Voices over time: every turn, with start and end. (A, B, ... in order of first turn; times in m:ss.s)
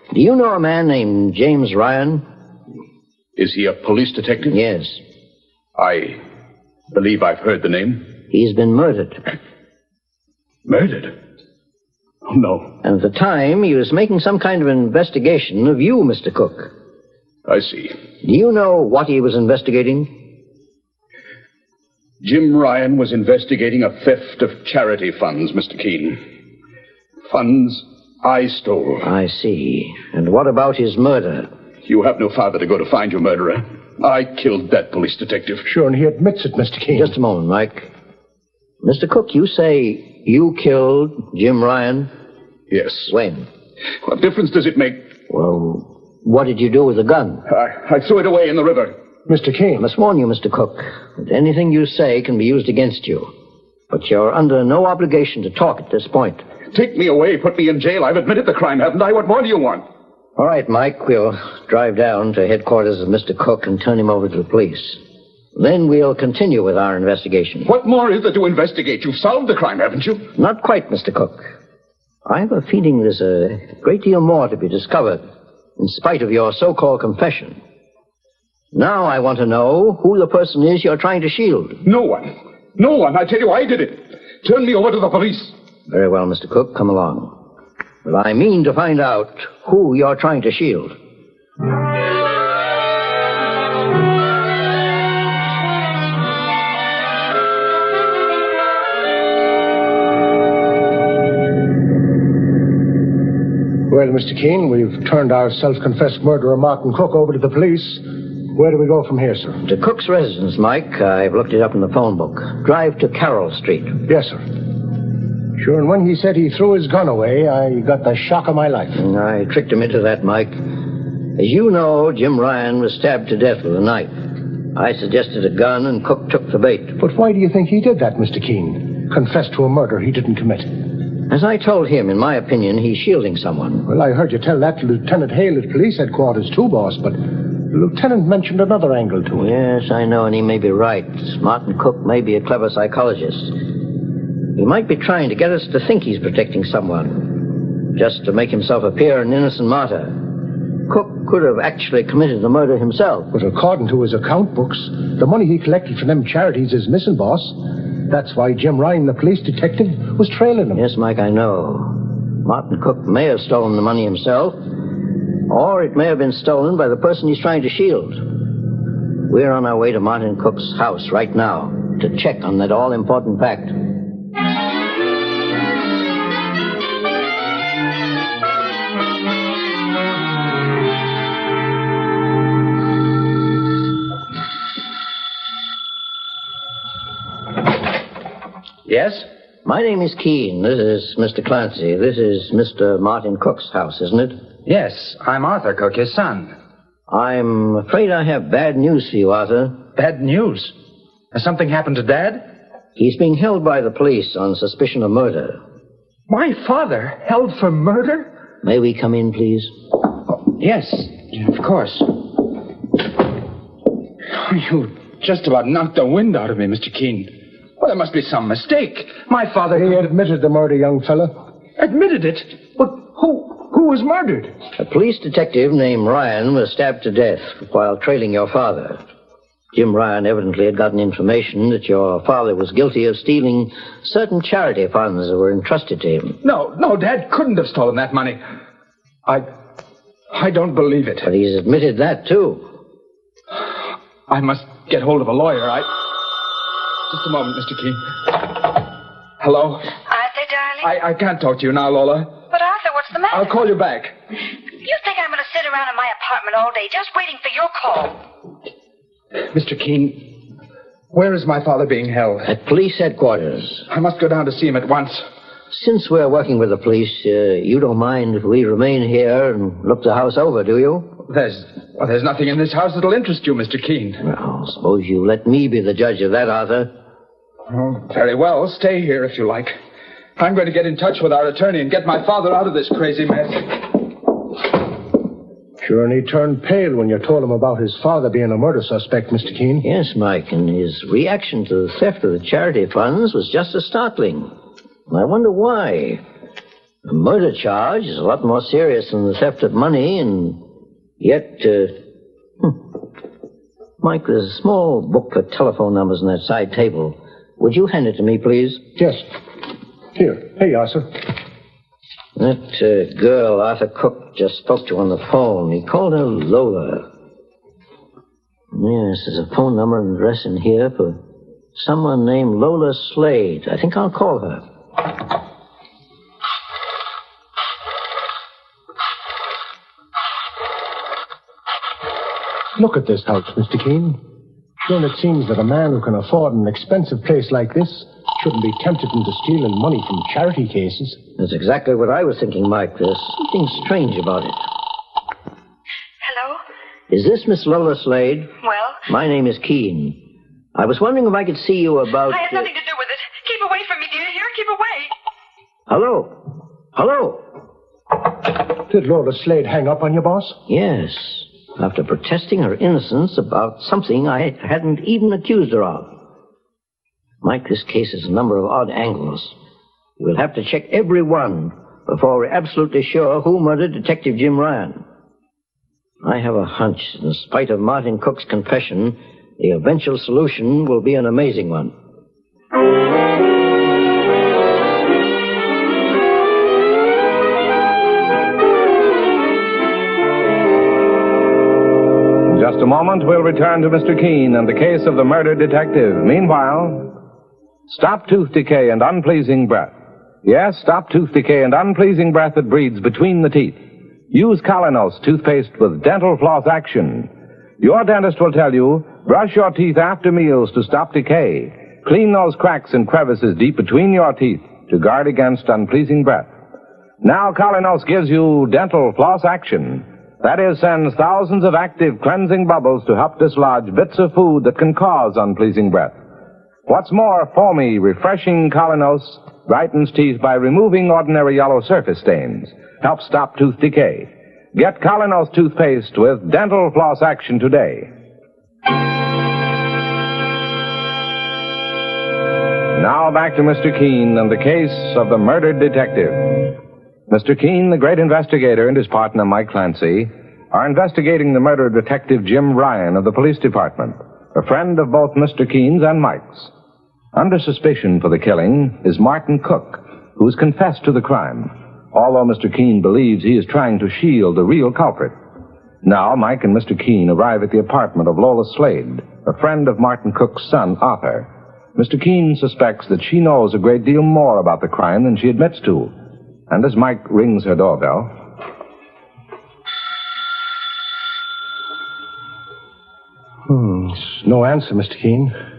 0:00.1-0:02.2 A
0:03.4-0:04.6 B
0:04.5-0:05.0 A
0:05.8-0:06.2 B
0:06.9-0:08.1 B
0:08.3-0:09.2 A
0:10.6-0:11.1 B
0:12.3-0:12.7 B
0:12.8-0:16.7 A
0:17.5-0:18.0 B
0:18.2-0:20.1 A
0:22.2-0:26.2 B
0:27.3-0:29.1 B
0:29.0-0:31.5 A
0:31.8-0:35.6 B
0:35.6-0:37.2 C
0:36.9-0:37.9 A
0:38.8-0:42.1 A
0:42.7-0:43.1 B
0:43.1-0:43.5 A
0:44.0-0:45.0 B
0:45.3-0:47.4 A
0:47.5-0:48.9 B
0:49.2-0:49.9 C
0:49.8-0:53.3 A
0:53.9-0:56.4 A
0:56.7-0:59.8 B
1:00.4-1:05.0 A
1:05.5-1:07.7 A
1:07.6-1:10.3 B
1:10.3-1:11.5 A
1:12.2-1:15.2 A
1:15.8-1:17.6 A
1:18.7-1:21.8 A
1:21.8-1:25.5 B
1:25.9-1:27.3 A
1:28.0-1:30.9 A
1:43.9-1:49.6 C
1:49.6-1:54.0 A
1:54.0-1:54.4 C
1:55.6-1:59.0 C
1:59.0-2:00.7 A
2:01.2-2:04.1 A
2:04.7-2:07.0 A
2:07.0-2:10.8 C
2:11.2-2:13.9 A
2:13.8-2:19.5 C
2:19.4-2:23.6 A
2:24.5-2:33.3 A
2:33.3-2:40.8 C
2:40.7-2:44.6 A
2:45.4-2:48.4 A
2:49.2-2:53.8 A
3:08.8-3:09.3 D
3:09.6-3:14.4 A
3:14.6-3:16.5 D
3:17.1-3:19.8 A
3:20.0-3:20.7 D
3:21.3-3:22.4 D
3:23.0-3:25.6 A
3:26.3-3:28.3 D
3:28.6-3:29.7 A
3:30.4-3:32.1 D
3:34.3-3:40.1 D
3:39.7-3:41.3 C
3:41.8-3:44.5 D
3:44.8-3:49.0 A
3:49.7-3:56.4 A
3:56.4-3:58.4 D
4:00.3-4:01.3 D
4:01.2-4:02.6 A
4:04.3-4:05.9 D
4:07.1-4:08.8 D
4:09.4-4:09.9 D
4:10.1-4:10.9 E
4:10.8-4:12.3 D
4:12.5-4:13.6 E
4:13.3-4:14.1 D
4:14.8-4:18.2 E
4:19.5-4:20.3 D
4:21.1-4:22.5 D
4:22.4-4:23.8 A
4:23.9-4:25.2 D
4:25.7-4:31.1 A
4:31.3-4:34.2 D
4:34.2-4:36.9 A
4:37.7-4:39.8 D
4:40.4-4:43.8 D
4:45.8-4:49.8 C
4:49.8-4:54.5 A
4:55.1-4:56.2 A
4:57.0-5:00.6 A
5:01.2-5:01.9 A
5:04.0-5:08.8 A
5:09.0-5:09.2 C
5:10.1-5:11.1 C
5:12.4-5:17.0 A
5:18.7-5:21.2 A
5:21.7-5:24.6 A
5:32.8-5:34.2 C
5:34.8-5:41.2 C
5:41.4-5:44.6 A
5:46.2-5:46.6 E
5:47.1-5:48.5 A
5:48.6-5:49.0 E
5:49.0-5:50.2 A
5:50.7-5:52.7 A
5:52.3-5:55.1 E
5:55.9-5:56.4 A
5:56.9-5:57.4 A
5:58.9-6:00.6 C
6:00.7-6:06.1 A
6:07.4-6:09.5 A
6:10.2-6:15.0 A
6:16.2-6:21.9 A
6:32.5-6:37.1 F
6:37.9-6:39.9 F
6:40.4-6:43.8 F
6:44.3-6:56.5 F
6:57.2-7:06.1 F
7:06.9-7:18.1 F
7:22.9-7:26.7 F
7:27.3-7:36.7 F
7:37.3-7:45.3 F
7:46.0-7:56.1 F
7:56.7-7:58.3 F
8:03.7-8:05.5 C